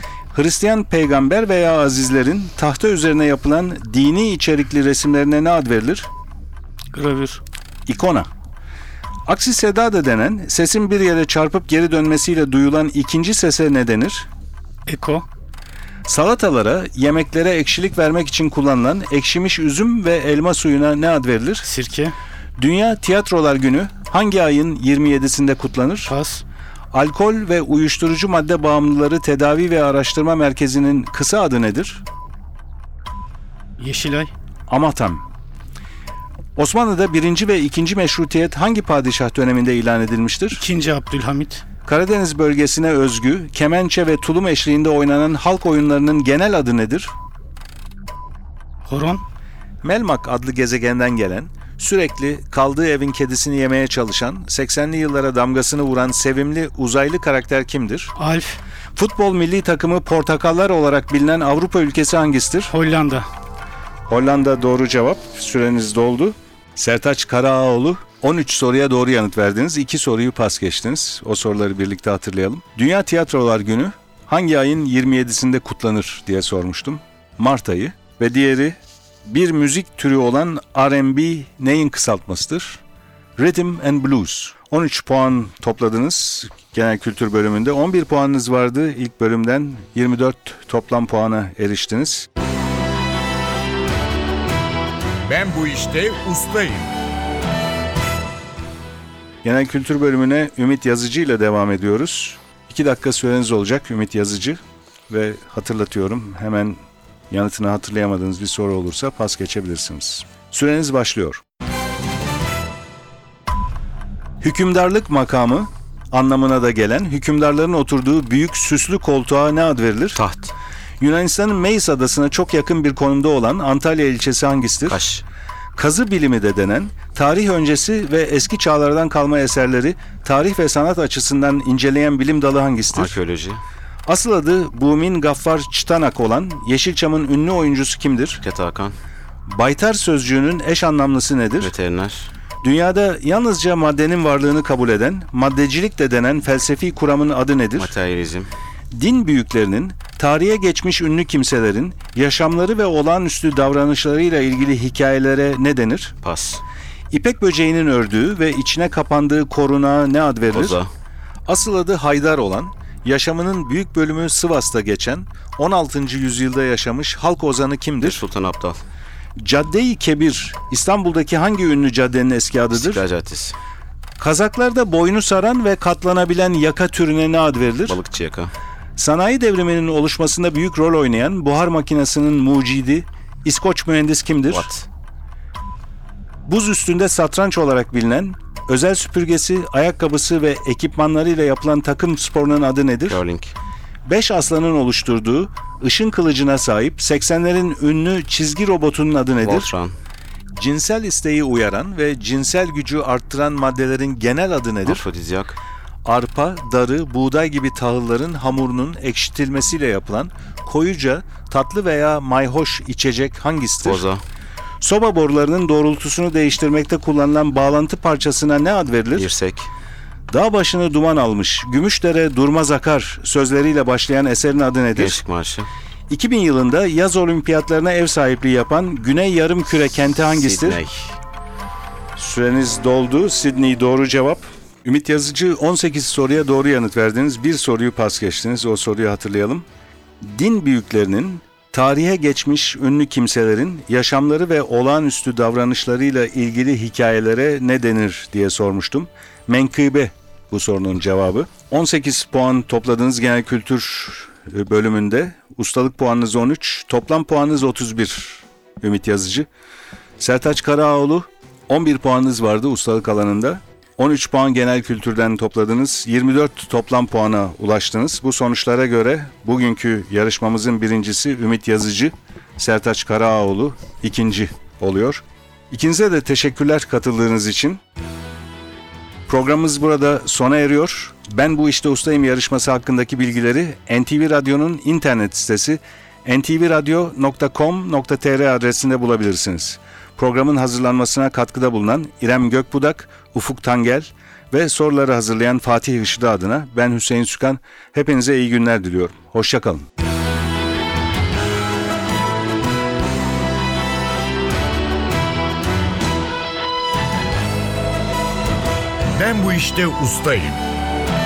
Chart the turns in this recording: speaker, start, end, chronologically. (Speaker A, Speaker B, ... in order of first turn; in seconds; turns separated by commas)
Speaker A: 0.3-6.1, Speaker B: 6.9-7.4, Speaker A: 7.9-8.3, Speaker A: 9.3-14.3, Speaker B: 14.9-15.2, Speaker A: 16.1-21.7, Speaker B: 21.6-22.1, Speaker A: 22.6-26.1, Speaker B: 26.1-26.4, Speaker A: 26.9-32.0, Speaker B: 33.8-34.3, Speaker A: 34.7-35.2, Speaker A: 36.5-40.6, Speaker B: 40.5-41.6, Speaker A: 41.8-47.1, Speaker B: 48.9-49.2, Speaker A: 49.8-58.1, Speaker B: 58.2-58.6, Speaker A: 58.9-62.7, Speaker B: 62.7-63.3, Speaker A: 64.1-82.8, Speaker A: 83.4-92.3, Speaker C: 95.2-96.9, Speaker A: 99.4-106.8, Speaker A: 107.3-111.4, Speaker A: 114.4-120.2, Speaker D: 120.1-120.5, Speaker A: 121.0-125.0, Speaker D: 124.9-125.2, Speaker A: 125.8-133.2, Speaker D: 132.9-133.6, Speaker A: 134.1-138.4, Speaker D: 138.4-139.0, Speaker A: 139.5-141.7, Speaker D: 141.6-142.3, Speaker A: 142.6-147.9, Speaker D: 147.8-148.5, Speaker A: 148.9-156.1, Speaker D: 156.2-156.6, Speaker A: 157.1-160.8, Speaker D: 160.5-160.9, Speaker A: 161.4-168.2, Speaker D: 168.0-168.8, Speaker A: 169.4-173.0, Speaker D: 172.7-173.6, Speaker A: 174.2-178.0, Speaker D: 177.9-178.5, Speaker A: 179.0-184.7, Speaker D: 184.5-184.9, Speaker A: 186.4-193.2, Speaker D: 193.1-193.5, Speaker A: 194.0-199.7, Speaker D: 199.4-199.9, Speaker A: 200.5-205.0, Speaker D: 204.8-205.6, Speaker A: 206.0-214.0, Speaker D: 213.8-214.2, Speaker A: 214.8-219.3, Speaker D: 219.1-219.7, Speaker A: 220.3-225.2, Speaker D: 224.9-225.7, Speaker A: 226.1-230.8, Speaker D: 230.3-231.2, Speaker A: 232.2-239.6, Speaker A: 240.2-259.5, Speaker A: 260.2-277.8, Speaker A: 279.3-299.9, Speaker C: 309.2-310.6